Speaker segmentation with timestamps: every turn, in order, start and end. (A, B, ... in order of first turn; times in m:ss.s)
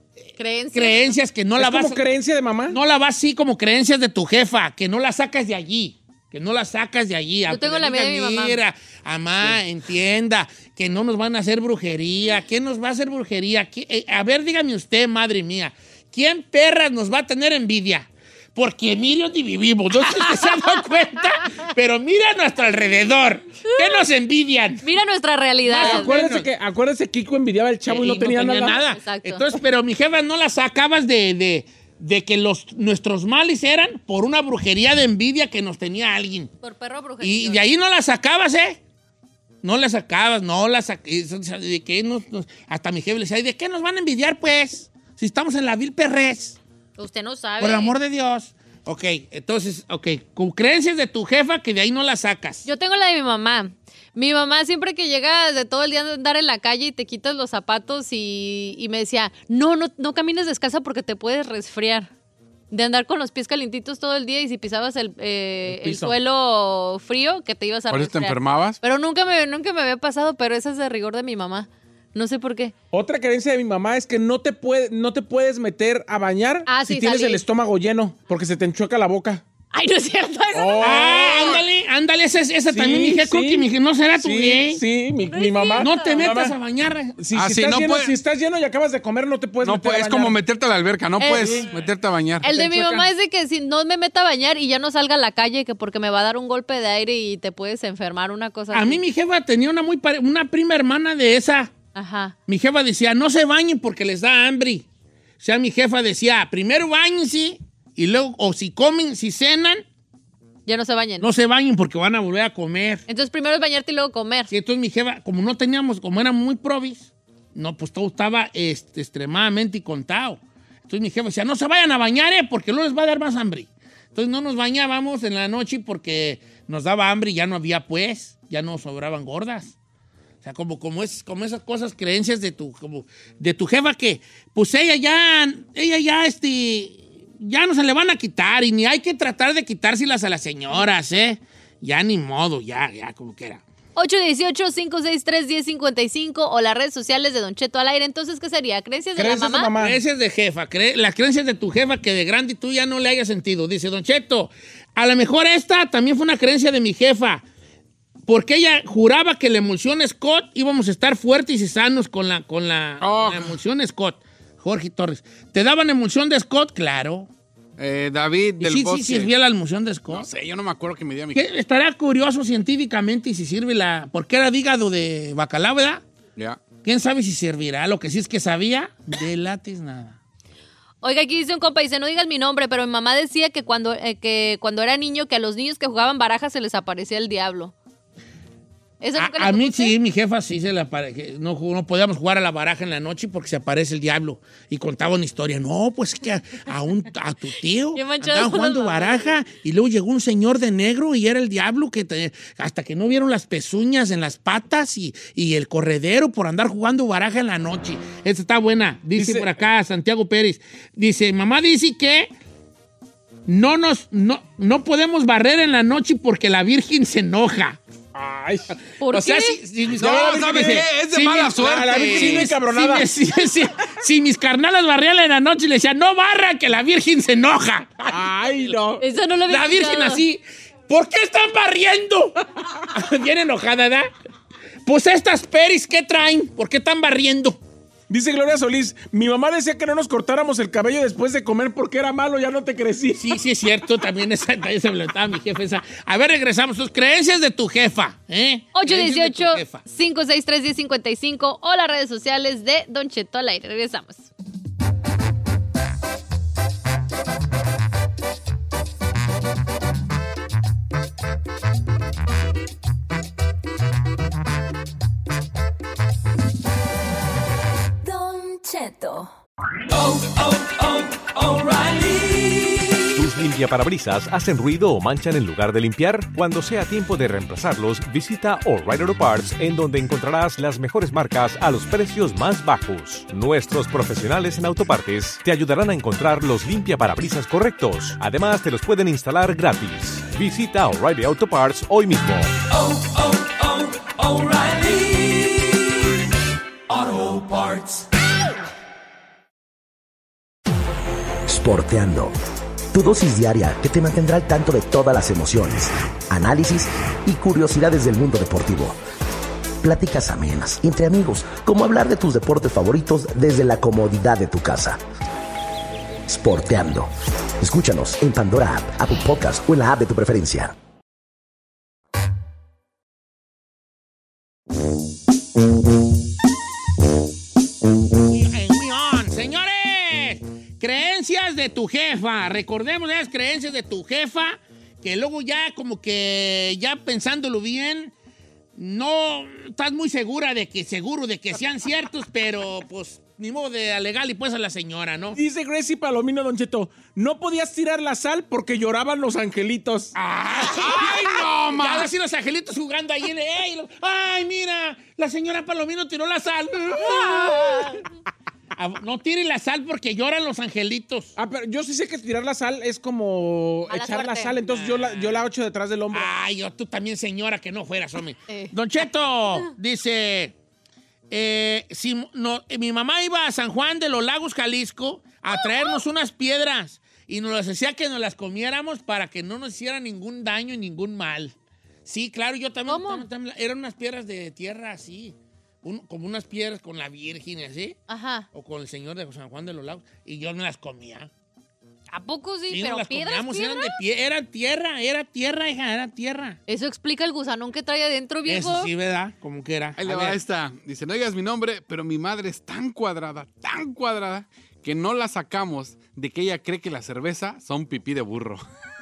0:00.4-0:01.2 A
0:00.7-0:02.0 B
0:01.6-0:02.8 C
0:02.7-0:24.8 B
0:07.5-0:08.6 A
0:23.7-0:24.0 A
0:24.8-0:26.2 A
0:25.7-0:26.5 B
0:25.8-0:28.8 C
0:27.9-0:36.5 B
0:28.6-0:29.4 A
0:36.6-0:37.6 A
0:37.2-0:38.8 B
0:39.6-0:46.6 B
0:47.0-0:47.9 A
0:47.6-0:52.7 B
0:52.6-1:02.1 A
1:02.7-1:12.7 A
1:05.7-1:06.1 C
1:07.9-1:08.8 D
1:12.9-1:19.4 C
1:16.7-1:17.4 A
1:19.7-1:21.3 A
1:20.5-1:21.5 C
1:20.8-1:24.8 B
1:21.2-1:21.6 D
1:22.7-1:26.6 C
1:25.3-1:26.3 A
1:25.8-1:27.2 B
1:27.2-1:30.4 C
1:27.3-1:28.2 D
1:29.6-1:32.5 D
1:31.2-1:31.6 A
1:31.2-1:31.7 C
1:32.4-1:39.0 A
1:32.4-1:33.1 C
1:38.7-1:41.7 B
1:42.0-1:42.4 A
1:42.5-1:44.8 B
1:45.4-1:49.8 B
1:50.7-1:51.3 A
1:51.2-1:53.0 B
1:53.1-1:54.5 A
1:54.5-2:09.8 B
2:10.4-2:23.6 B
2:24.0-2:29.7 A
2:29.2-2:30.0 C
2:29.8-2:37.4 B
2:38.3-2:47.3 B
2:43.0-2:43.6 D
2:47.8-2:49.3 D
2:48.6-2:50.3 B
2:50.1-2:51.4 D
2:51.4-2:56.0 B
2:56.4-2:56.6 D
2:56.8-3:00.2 B
3:01.0-3:07.7 A
3:09.0-3:10.0 A
3:09.2-3:32.3 B
3:18.0-3:19.3 A
3:29.2-3:29.5 C
3:33.5-3:37.8 B
3:38.1-3:38.7 C
3:39.0-3:39.6 A
3:39.1-3:48.3 B
3:39.9-3:42.5 D
3:40.0-3:40.9 C
3:41.6-3:43.2 C
3:48.1-3:49.0 C
3:49.0-3:50.2 A
3:49.5-3:54.1 B
3:54.8-3:57.6 B
3:58.1-4:03.4 C
4:03.2-4:09.8 B
4:08.8-4:14.3 A
4:28.0-4:29.3 E
4:29.9-4:33.0 E
4:33.2-4:52.5 F
4:52.7-4:55.9 E
4:56.9-4:58.1 E
5:01.5-5:02.4 G
5:02.9-5:09.0 G
5:09.8-5:15.0 G
5:16.3-5:20.7 G
5:28.2-5:38.1 B
5:38.8-5:45.4 B
5:45.4-5:50.2 C
5:50.2-5:58.0 B
5:50.5-5:52.1 D
5:56.9-5:58.0 A
5:58.7-6:01.4 B
6:01.4-6:06.3 C
6:03.9-6:04.6 A
6:04.6-6:05.4 B
6:06.1-6:10.5 B
6:08.5-6:08.7 A
6:11.3-6:28.0 B
6:22.9-6:23.3 A
6:28.1-6:28.5 A
6:28.5-6:31.3 B
6:32.1-6:34.0 A
6:32.7-6:36.6 B
6:36.7-6:38.9 A
6:38.5-6:40.4 B
6:40.0-6:48.6 D